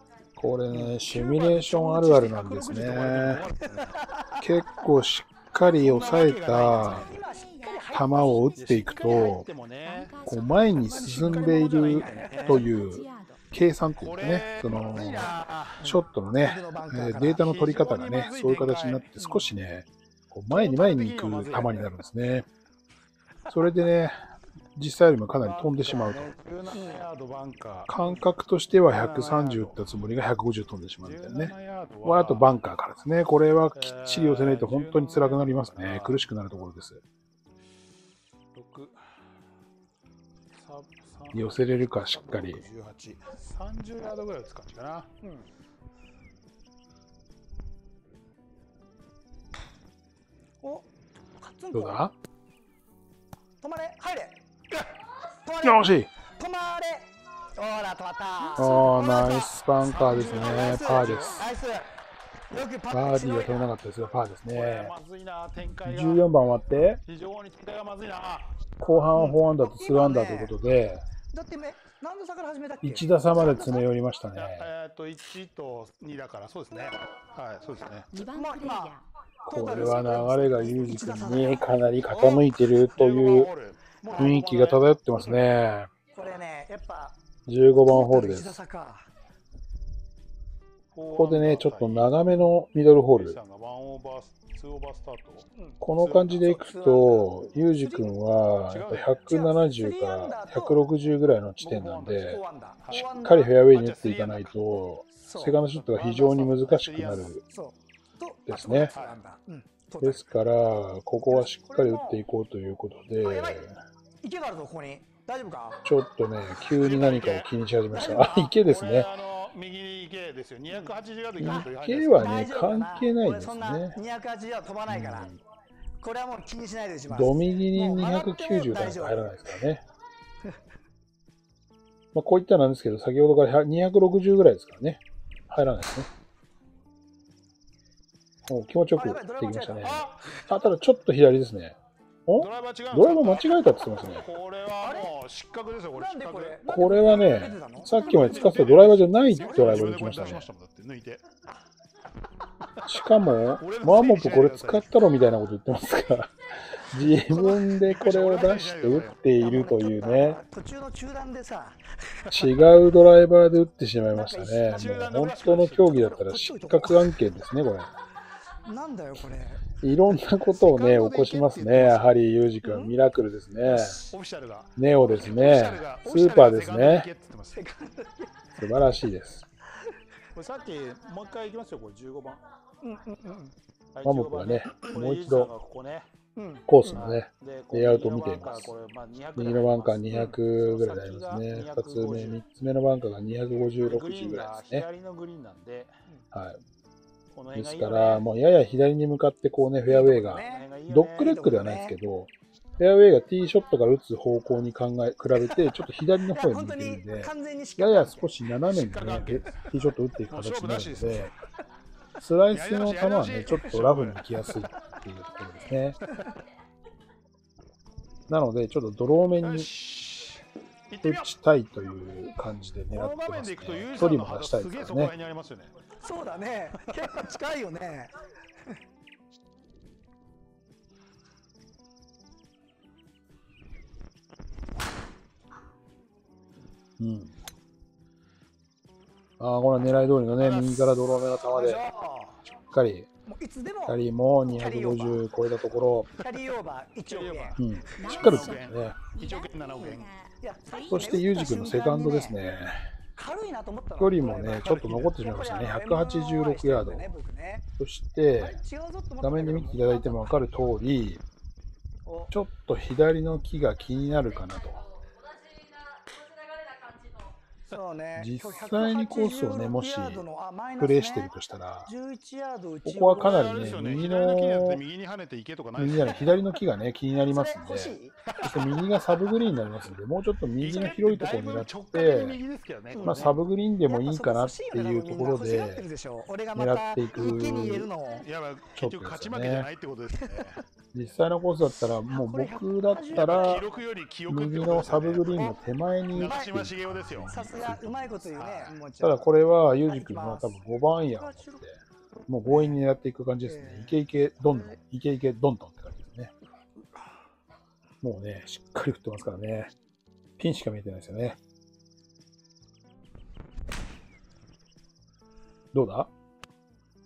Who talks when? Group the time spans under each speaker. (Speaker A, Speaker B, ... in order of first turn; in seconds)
Speaker A: 0.4-3.5, 4.4-7.1, 7.9-9.5, 10.2-22.5, 23.5-24.1, 24.8-26.3, 27.9-37.0, 41.3-42.6, 51.7-52.1, 55.6-56.1, 58.5-61.4, 62.9-64.9, 65.8-67.0, 68.8-71.0, 72.8-74.7, 79.5-83.5, 84.2-85.9, 87.5-88.6, 91.1-93.4, 95.8-107.4, 108.5-108.9, 110.0-113.8, 115.8-119.1, 121.4-124.0, 124.9-125.3, 127.1-129.8, 132.1-136.1, 138.4-144.3, 146.7-150.5, 152.8-160.4, 162.3-167.9, 169.8-174.0, 174.8-177.1, 178.6-179.4, 184.0-185.5, 186.7-188.7, 189.3-194.8, 196.3-196.6, 197.5-211.3, 212.2-216.0, 218.3-219.7, 221.0-225.1, 237.0-237.3, 239.4-241.8, 242.5-243.1, 243.8-246.1, 247.6-249.0, 250.9-252.8, 254.0-257.1, 257.8-258.6, 259.2-261.2, 262.3-264.8, 268.1-270.2, 270.8-271.9, 272.8-274.8, 275.8-282.4, 283.0-285.8, 286.5-287.9, 288.7-289.7, 290.9-293.6, 294.3-298.2, 299.0-306.3, 308.0-309.7, 310.4-311.4, 315.7-316.1
Speaker B: 0.7-4.0, 5.7-7.1, 8.6-10.2, 10.8-12.7, 14.0-15.8, 17.3-19.1, 20.5-21.9, 25.4-28.2, 28.9-29.8, 31.0-32.5, 33.7-36.2, 38.5-39.0, 40.5-45.1, 59.8-61.5, 64.5-66.2, 67.0-68.5, 74.3-78.1, 82.1-85.2, 90.9-92.1, 93.1-96.6, 98.7-99.2, 101.6-104.5, 105.7-107.4, 108.9-109.2, 116.7-122.4, 139.8-140.2, 142.4-143.6, 144.2-146.7, 148.1-151.2, 153.6-154.9, 157.3-159.2, 164.7-166.2, 170.5-172.1, 173.6-177.6, 180.3-182.4, 183.9-186.1, 186.9-192.4, 193.8-195.9, 197.3-198.2, 200.3-201.4, 208.7-209.6, 210.3-211.3, 212.5-214.4, 219.4-221.3, 222.9-225.7, 240.3-241.0, 247.0-250.1, 273.1-276.3, 278.3-278.7, 280.6-283.4, 288.1-290.6, 293.1-295.6, 296.1-297.4, 298.3-298.7
Speaker C: 6.8-8.4, 11.9-12.4, 15.8-17.4, 19.2-19.5, 26.7-27.0, 45.2-45.5, 50.6-50.9, 51.4-52.0, 53.6-54.4, 55.4-61.9, 62.5-63.7, 69.1-70.6, 71.3-73.8, 78.3-81.7, 86.1-87.2, 87.8-89.1, 96.4-98.1, 99.3-100.8, 102.2-103.5, 105.1-105.6, 107.5-110.3, 111.3-112.2, 113.2-113.7, 114.2-115.8, 121.4-125.3, 126.0-129.3, 138.9-140.1, 144.8-145.1, 145.9-147.9, 149.4-150.4, 159.4-162.3, 164.1-165.0, 165.9-167.2, 168.6-169.7, 172.6-172.9, 177.5-178.5, 182.8-183.5, 186.3-187.0, 199.8-200.7, 201.2-202.0, 205.4-205.7, 206.2-208.3, 225.9-228.1, 241.5-242.4, 243.3-245.2, 246.2-248.0, 249.8-252.4, 253.1-257.6, 258.3-260.4, 262.1-262.3, 267.6-271.3, 271.8-273.4, 277.3-278.2, 282.9-288.2, 291.8-293.7, 296.2-296.5, 297.3-301.6, 302.5-302.8, 303.4-304.8
Speaker D: 6.9-13.4, 78.1-79.0, 147.8-148.6, 247.9-251.0